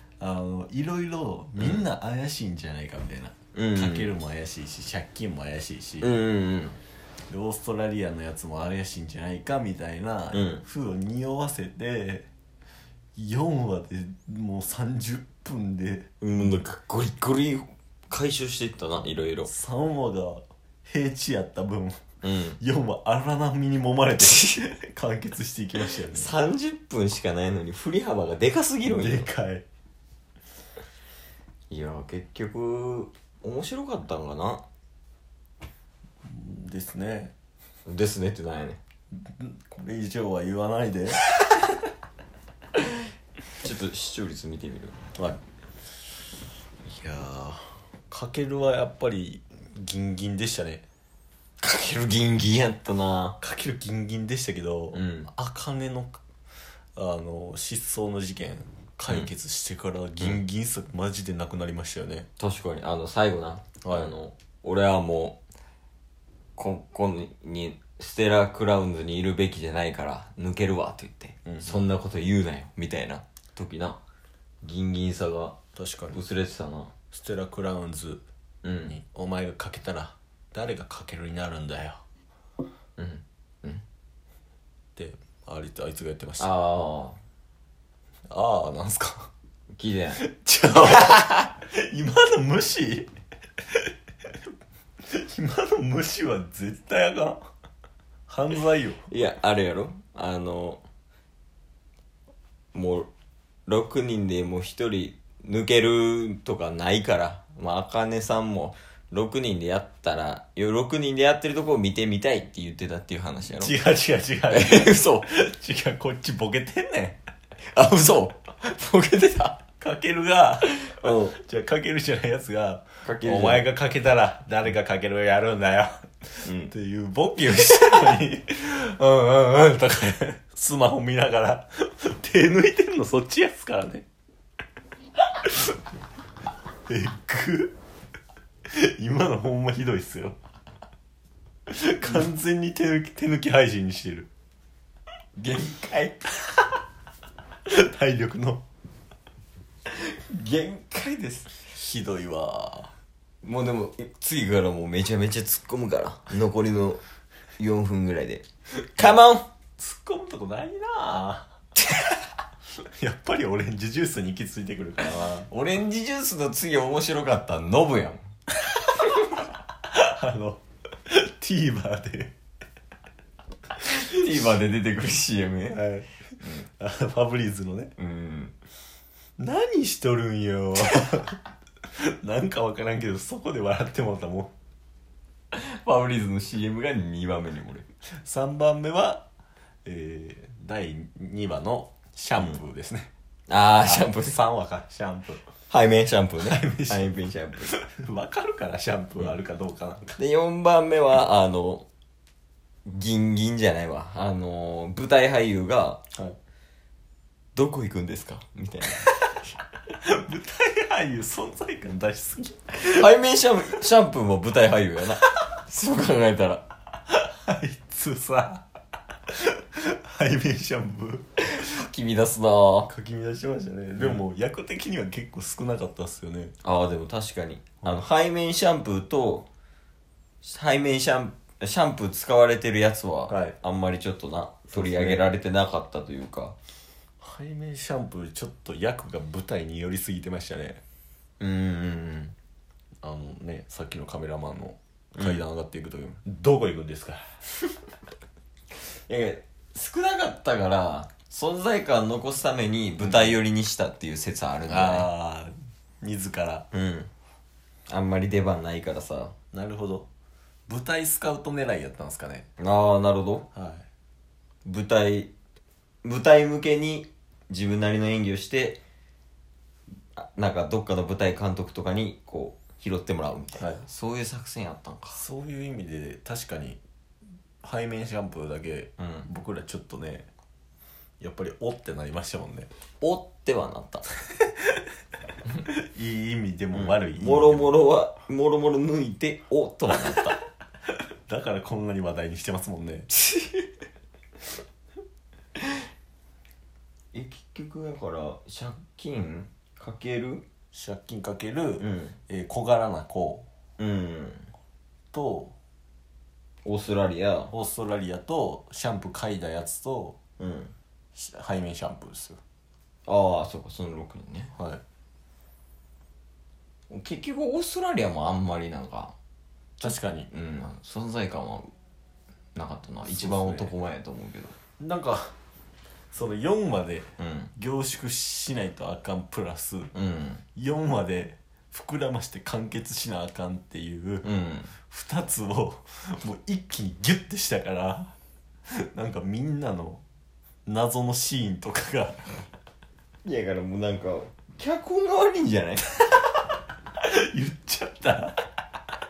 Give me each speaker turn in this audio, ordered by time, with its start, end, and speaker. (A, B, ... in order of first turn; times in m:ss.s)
0:00.2-0:06.1 A
0:03.5-0:04.1 B
0:06.0-0:06.8 B
0:07.3-0:12.3 A
0:10.3-0:10.6 B
0:13.2-0:16.6 A
0:16.2-0:19.5 B
0:19.4-0:22.0 A
0:22.2-0:22.6 B
0:22.6-0:26.3 A
0:24.2-0:24.7 B
0:26.1-0:29.3 B
0:28.8-0:29.6 A
0:31.7-0:34.6 B
0:36.2-0:37.3 A
0:37.8-0:38.8 B
0:39.1-0:41.2 A
0:43.6-0:45.0 B
0:46.8-0:50.8 A
0:51.6-0:53.4 B
0:53.4-0:56.2 A
0:54.9-0:55.3 B
0:56.9-1:02.3 A
1:02.4-1:05.4 B
1:03.8-1:04.1 A
1:06.6-1:14.0 B
1:11.4-1:11.8 A
1:14.6-1:15.6 B
1:15.7-1:16.2 A
1:16.1-1:16.9 B
1:17.1-1:18.2 A
1:18.6-1:18.9 B
1:18.9-1:22.0 A
1:23.0-1:23.8 B
1:25.0-1:26.5 A
1:26.4-1:27.2 B
1:28.3-1:29.3 A
1:29.7-1:30.3 B
1:30.2-1:33.1 A
1:30.8-1:31.3 B
1:35.1-1:37.4 A
1:38.3-1:39.0 A
1:39.1-1:40.8 B
1:42.7-1:43.1 B
1:43.7-1:53.8 B
1:53.5-1:57.2 A
1:54.5-1:55.3 B
1:57.7-1:59.6 B
1:59.8-2:14.0 A
2:00.8-2:01.4 B
2:03.0-2:03.7 B
2:06.4-2:06.7 B
2:07.6-2:08.1 B
2:16.9-2:17.7 A
2:18.7-2:20.4 A
2:21.7-2:24.3 A
2:25.4-2:26.2 B
2:27.7-2:28.6 A
2:29.9-2:31.5 B
2:31.7-2:32.9 A
2:33.4-2:37.0 B
2:37.6-2:38.4 B
2:39.0-2:39.5 B
2:39.8-2:41.5 A
2:43.0-2:45.5 A
2:45.0-2:48.2 B
2:48.7-2:49.0 A
2:49.9-2:52.3 A
2:53.8-2:55.9 B
2:55.7-2:57.9 A
2:56.4-2:56.7 B
2:58.0-2:58.5 B
2:59.4-3:01.4 A
3:01.9-3:04.5 A
3:05.5-3:07.8 B
3:08.2-3:09.2 A
3:09.8-3:13.1 A
3:13.5-3:14.4 B
3:13.8-3:15.4 A
3:15.7-3:17.8 B
3:16.4-3:20.2 A
3:20.2-3:21.8 B
3:22.8-3:26.0 B
3:27.5-3:29.1 B
3:30.0-3:33.1 A
3:32.8-3:36.6 B
3:37.1-3:38.6 A
3:39.3-3:41.3 A
3:41.5-3:42.9 B
3:42.9-3:46.5 A
3:46.6-3:49.5 B
3:50.4-3:56.6 B
3:53.3-3:53.6 A
3:54.7-3:55.3 A
3:57.2-4:00.8 A
4:01.4-4:02.3 B
4:03.0-4:07.3 A
4:08.9-4:15.1 B
4:13.0-4:13.4 A
4:14.7-4:16.7 A
4:16.7-4:17.1 B
4:17.9-4:19.3 B
4:19.5-4:20.1 A
4:20.7-4:22.4 A
4:22.6-4:23.4 B
4:23.5-4:23.8 A
4:24.6-4:25.3 B
4:26.0-4:28.8 B
4:30.1-4:35.2 B
4:33.6-4:33.8 A
4:35.1-4:36.8 A
4:37.6-4:40.2 A
4:39.0-4:39.3 B
4:41.2-4:42.7 A
4:43.0-4:44.0 B
4:45.6-4:47.8 A
4:46.7-4:50.4 B
4:51.3-4:53.1 A
4:53.2-4:53.7 B
4:57.1-5:00.4 B
5:00.7-5:03.4 A
5:01.8-5:02.1 B
5:03.8-5:04.5 B
5:05.1-5:05.5 A
5:06.6-5:07.5 B
5:07.5-5:10.2 A
5:10.4-5:10.7 B
5:11.1-5:12.4 A
5:13.0-5:14.5 B
5:14.6-5:14.8 A
5:16.9-5:19.1 B
5:19.8-5:21.7 B
5:19.8-5:20.3 A
5:22.5-5:24.5 B
5:23.0-5:23.7 A
5:24.8-5:25.4 A
5:26.1-5:29.9 A
5:27.2-5:27.5 B
5:29.9-5:30.4 B
5:30.6-5:34.2 A
5:34.2-5:34.7 B
5:34.9-5:38.1 A
5:38.9-5:40.0 A
5:40.6-5:42.3 A
5:43.2-5:45.9 B
5:47.0-5:48.5 A